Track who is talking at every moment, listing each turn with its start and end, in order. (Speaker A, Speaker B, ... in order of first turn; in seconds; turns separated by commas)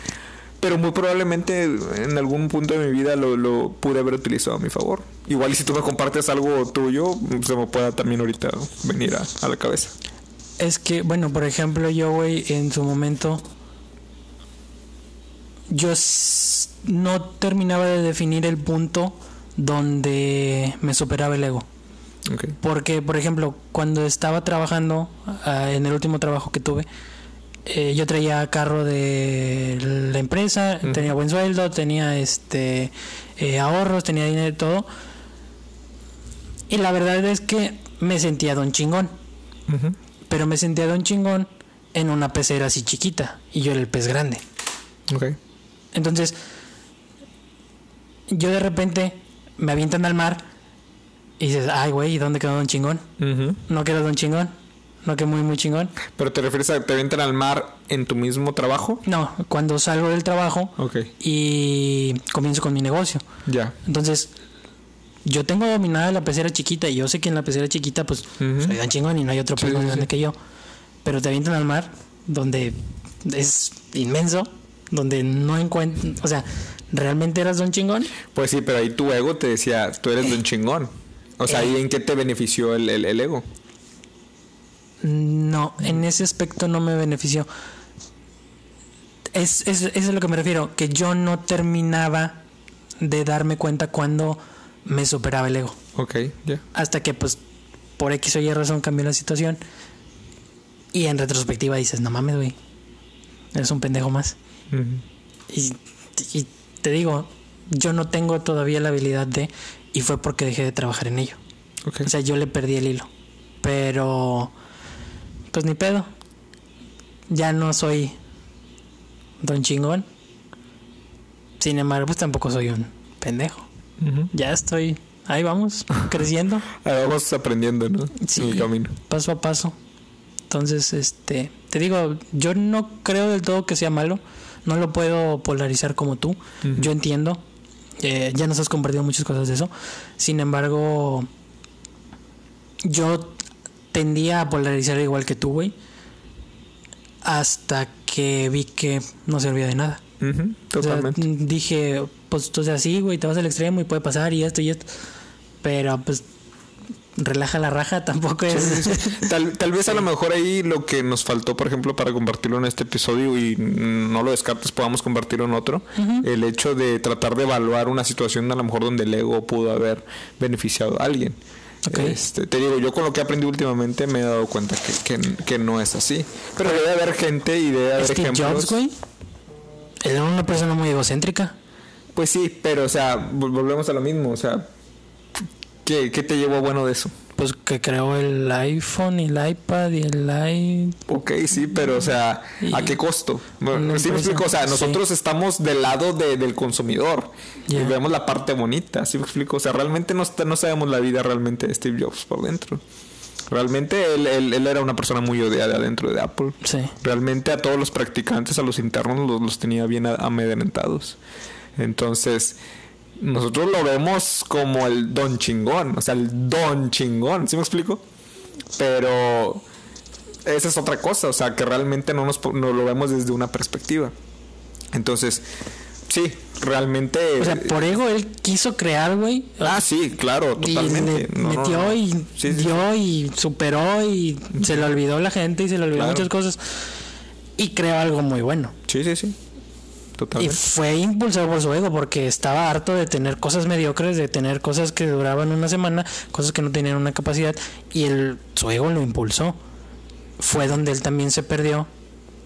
Speaker A: 0.6-9.9, Speaker B: 10.6-13.4, Speaker B: 15.7-21.6, Speaker A: 22.3-22.6, Speaker B: 22.6-26.9, Speaker B: 27.7-34.9, Speaker A: 30.8-31.1, Speaker B: 36.7-39.1, Speaker A: 39.7-40.0, Speaker B: 40.3-44.4, Speaker A: 45.1-45.4, Speaker B: 45.9-46.4, Speaker B: 48.3-50.5, Speaker B: 51.4-53.0, Speaker A: 53.2-53.6, Speaker B: 53.7-54.5, Speaker B: 55.0-56.0, Speaker A: 56.1-59.0, Speaker B: 59.0-63.2, Speaker A: 60.8-61.1, Speaker A: 63.5-63.8, Speaker B: 63.9-64.3, Speaker B: 65.2-70.4, Speaker A: 68.4-68.8, Speaker A: 69.6-70.1, Speaker B: 71.0-78.1, Speaker A: 78.3-83.4, Speaker B: 81.5-81.7, Speaker B: 85.0-87.5, Speaker B: 89.3-92.4, Speaker B: 93.0-95.8, Speaker A: 96.0-96.6, Speaker B: 96.7-97.4, Speaker B: 98.0-99.6, Speaker B: 100.9-102.6, Speaker B: 103.5-104.4, Speaker A: 104.7-105.0, Speaker B: 105.5-111.4, Speaker B: 112.0-113.1, Speaker B: 113.6-114.5, Speaker B: 115.5-116.1, Speaker B: 117.3-118.2, Speaker B: 119.4-120.1, Speaker B: 121.6-123.7, Speaker A: 124.0-124.3, Speaker B: 124.3-126.7, Speaker A: 126.7-128.9, Speaker B: 128.2-129.8, Speaker B: 130.5-137.4, Speaker A: 136.6-136.9, Speaker B: 138.0-141.3, Speaker B: 142.8-143.4, Speaker B: 143.9-145.7, Speaker B: 147.2-150.0, Speaker A: 150.2-151.2, Speaker B: 150.8-154.9, Speaker B: 155.6-156.2, Speaker B: 157.2-159.3, Speaker A: 158.5-178.8, Speaker B: 166.0-166.3, Speaker B: 171.9-172.2, Speaker B: 178.0-178.9, Speaker B: 180.0-181.6, Speaker A: 182.2-184.7, Speaker A: 185.8-187.2, Speaker B: 187.4-191.0, Speaker A: 191.1-202.8, Speaker B: 192.6-193.0, Speaker B: 193.7-195.0, Speaker B: 197.7-197.9, Speaker A: 203.5-211.2, Speaker B: 206.6-206.9, Speaker A: 211.8-212.6, Speaker A: 213.2-218.0, Speaker A: 218.8-219.6, Speaker A: 220.4-224.1, Speaker A: 224.9-225.4, Speaker A: 226.1-227.9, Speaker B: 227.4-229.8, Speaker A: 229.6-232.8, Speaker B: 230.6-236.8, Speaker A: 234.6-234.8, Speaker A: 235.9-236.3, Speaker B: 237.6-238.8, Speaker A: 238.9-239.4, Speaker A: 240.2-240.6, Speaker B: 240.4-249.6, Speaker B: 250.4-251.9